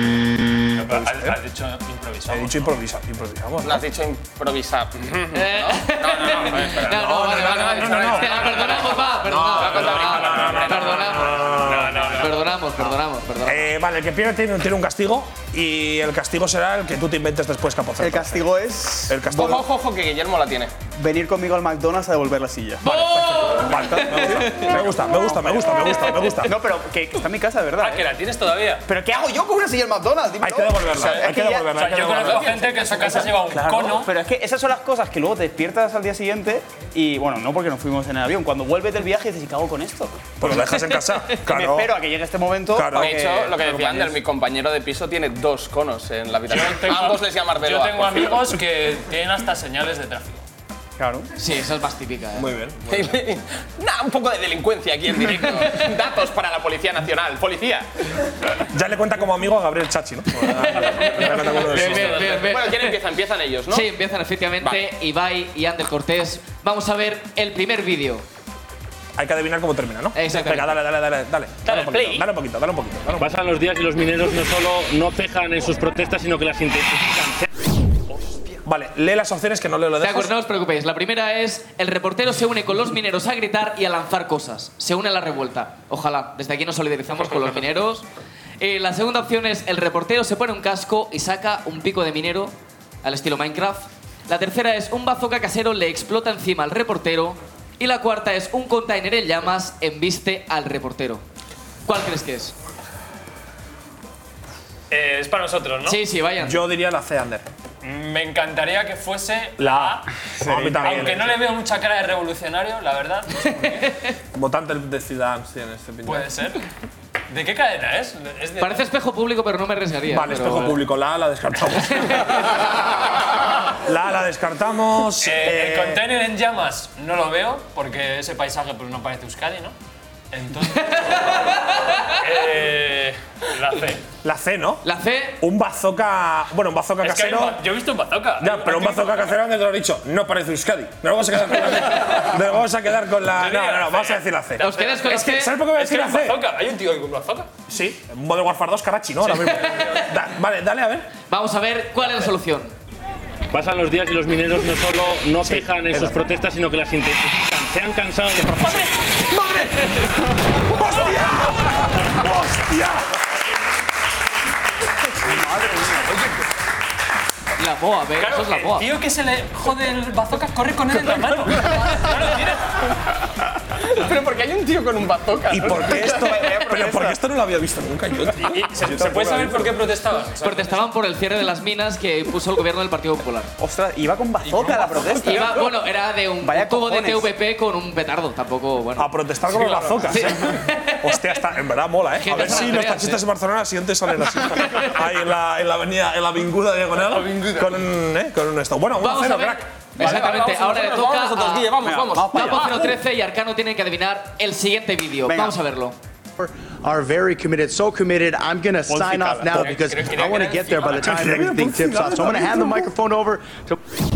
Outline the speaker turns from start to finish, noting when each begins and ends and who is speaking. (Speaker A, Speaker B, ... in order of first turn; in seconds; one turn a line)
Speaker A: 0.7-2.7
Speaker B: 0.8-1.4
Speaker B: 2.3-3.9
Speaker C: 3.6-12.5
Speaker D: 5.3-13.7
Speaker B: 6.8-8.4
Speaker B: 9.2-12.1
Speaker A: 9.8-10.6
Speaker A: 11.6-12.4
Speaker B: 13.4-18.5
Speaker E: 18.0-19.6
Speaker B: 19.1-19.7
Speaker C: 19.3-20.7
Speaker E: 21.0-22.9
Speaker D: 22.8-24.7
Speaker B: 22.8-26.6
Speaker E: 23.6-25.8
Speaker D: 25.6-26.4
Speaker E: 26.4-28.2
Speaker A: 27.8-28.8
Speaker E: 28.9-40.7
Speaker B: 30.4-32.6
Speaker A: 31.7-34.1
Speaker C: 32.3-33.4
Speaker B: 40.4-42.0
Speaker E: 41.4-43.6
Speaker B: 42.7-44.2
Speaker C: 42.9-48.5
Speaker A: 46.5-50.4
Speaker E: 51.0-51.3
Speaker D: 51.4-52.5
Speaker B: 52.3-53.2
Speaker C: 52.9-57.9
Speaker B: 58.7-62.3
Speaker D: 60.6-63.0
Speaker A: 61.7-62.4
Speaker C: 62.0-63.9
Speaker D: 63.7-68.2
Speaker B: 69.2-73.3
Speaker D: 70.1-70.8
Speaker A: 71.6-72.2
Speaker F: 73.2-77.5
Speaker A: 78.3-78.6
Speaker B: 78.6-80.4
Speaker D: 80.0-88.1
Speaker D: 88.6-101.2
Speaker D: 101.9-102.5
Speaker A: 104.9-106.0
Speaker D: 105.8-106.6
Speaker B: 106.4-107.5
Speaker A: 107.8-110.1
Speaker B: 109.6-111.5
Speaker E: 110.4-111.1
Speaker A: 110.8-113.8
Speaker D: 113.6-113.9
Speaker B: 114.3-116.4
Speaker A: 116.0-116.6
Speaker A: 117.3-118.9
Speaker D: 118.6-120.8
Speaker B: 120.1-122.4
Speaker B: 123.8-126.0
Speaker A: 125.2-129.8
Speaker A: 130.3-131.5
Speaker A: 132.2-134.1
Speaker B: 134.2-134.8
Speaker D: 134.8-135.4
Speaker B: 135.4-137.6
Speaker A: 137.0-139.3
Speaker B: 138.4-146.4
Speaker A: 143.3-147.5
Speaker D: 144.6-145.6
Speaker B: 147.7-151.1
Speaker D: 149.6-150.0
Speaker D: 151.3-152.8
Speaker F: 153.5-158.9
Speaker B: 155.4-156.2
Speaker B: 159.3-163.1
Speaker E: 165.2-166.2
Speaker D: 167.6-168.9
Speaker A: 168.2-172.8
Speaker B: 171.1-171.6
Speaker C: 173.8-176.5
Speaker B: 175.5-179.6
Speaker E: 175.8-177.2
Speaker A: 178.5-180.9
Speaker E: 178.8-179.7
Speaker D: 180.4-183.5
Speaker E: 183.6-185.7
Speaker A: 184.4-185.1
Speaker D: 185.2-189.1
Speaker E: 186.4-187.3
Speaker B: 189.0-199.7
Speaker A: 189.5-190.1
Speaker D: 190.1-191.4
Speaker D: 192.2-193.2
Speaker D: 194.5-194.9
Speaker A: 197.1-197.7
Speaker D: 199.0-201.8
Speaker C: 200.0-202.8
Speaker E: 201.8-203.0
Speaker D: 202.3-205.9
Speaker E: 205.2-205.6
Speaker G: 206.4-213.8
Speaker E: 208.9-209.8
Speaker A: 209.7-211.0
Speaker B: 210.8-212.8